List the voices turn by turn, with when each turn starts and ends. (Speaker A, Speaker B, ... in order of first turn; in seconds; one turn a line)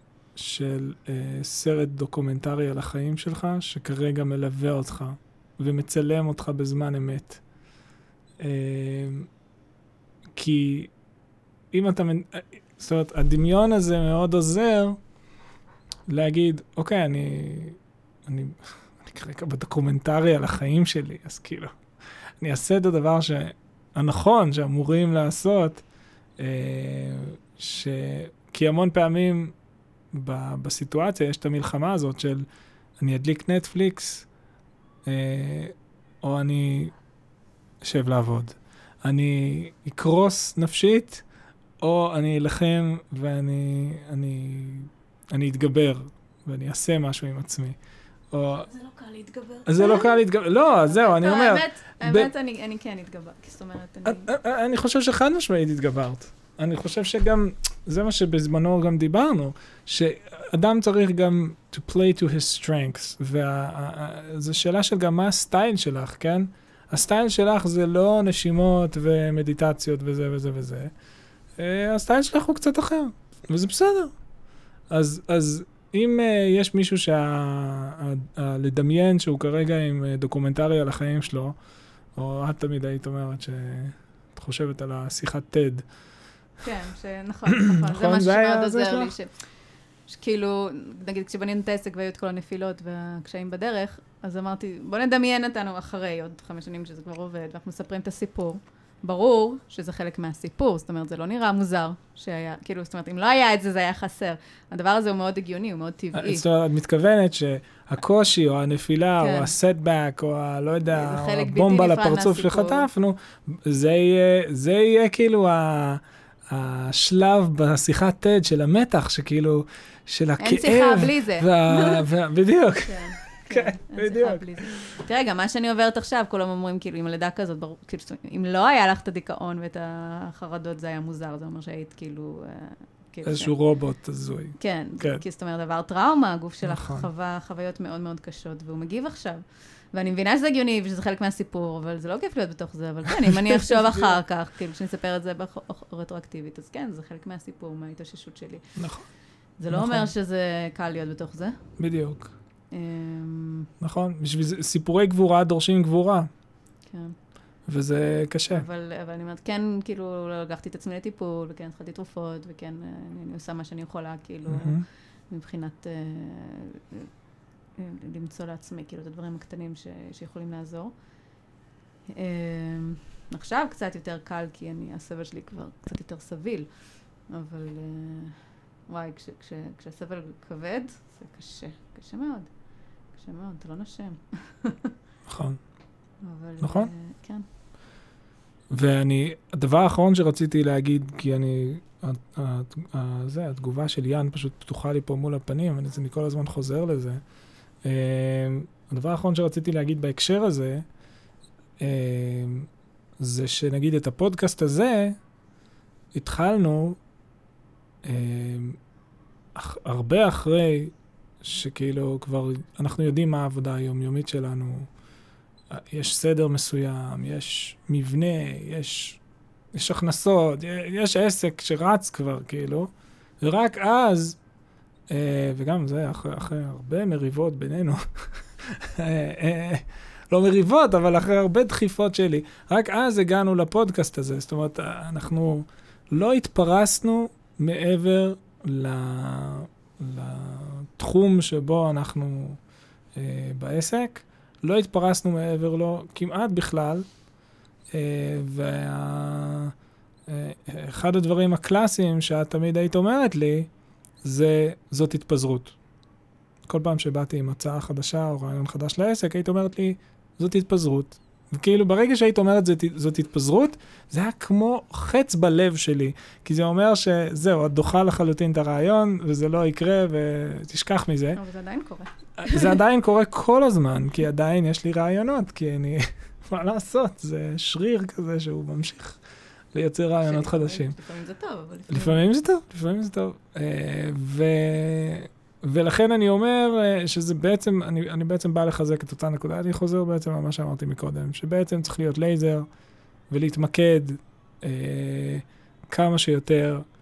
Speaker A: 0.3-7.4
Speaker A: 8.4-9.3
Speaker A: 10.3-10.9
Speaker A: 11.7-15.0
Speaker A: 16.1-21.7
Speaker A: 22.4-25.8
Speaker A: 26.4-29.5
Speaker A: 30.1-32.5
Speaker A: 33.0-34.3
Speaker A: 35.0-36.9
Speaker A: 37.8-41.2
Speaker A: 41.8-47.8
Speaker A: 48.3-48.7
Speaker B: 48.6-50.2
Speaker A: 49.6-52.3
Speaker B: 50.8-54.3
Speaker A: 54.0-70.9
Speaker A: 71.6-74.1
Speaker A: 74.9-81.5
Speaker A: 82.2-85.8
Speaker B: 86.6-89.3
Speaker A: 87.6-89.1
Speaker B: 90.0-106.4
Speaker A: 106.1-124.8
Speaker B: 109.2-109.5
Speaker B: 110.9-112.9
Speaker B: 120.4-122.0
Speaker B: 122.8-133.5
Speaker A: 133.2-135.2
Speaker B: 134.6-139.4
Speaker A: 136.6-137.1
Speaker B: 139.9-148.7
Speaker A: 143.2-144.2
Speaker A: 148.8-149.1
Speaker B: 149.6-151.6
Speaker A: 149.7-150.1
Speaker A: 151.8-152.3
Speaker B: 152.7-153.7
Speaker A: 153.8-156.3
Speaker B: 156.9-157.2
Speaker A: 157.7-158.6
Speaker B: 158.5-167.1
Speaker A: 164.5-164.8
Speaker B: 167.8-170.9
Speaker B: 172.1-176.7
Speaker B: 177.3-182.5
Speaker B: 183.1-184.9
Speaker A: 185.3-185.6
Speaker B: 186.2-187.4
Speaker A: 186.6-186.9
Speaker A: 188.7-197.2
Speaker A: 197.8-200.8
Speaker A: 201.8-202.7
Speaker A: 203.2-205.2
Speaker A: 206.1-207.0
Speaker A: 208.0-208.8
Speaker A: 209.5-214.9
Speaker A: 215.7-219.2
Speaker A: 219.7-224.4
Speaker A: 225.1-242.6
Speaker A: 243.2-247.1
Speaker A: 247.9-249.7
Speaker A: 250.3-253.7
Speaker A: 254.2-255.8
Speaker A: 256.7-271.4
Speaker B: 271.3-272.8
Speaker A: 272.4-279.2
Speaker A: 279.7-280.9
Speaker B: 280.2-282.3
Speaker A: 281.9-292.6
Speaker A: 293.3-296.8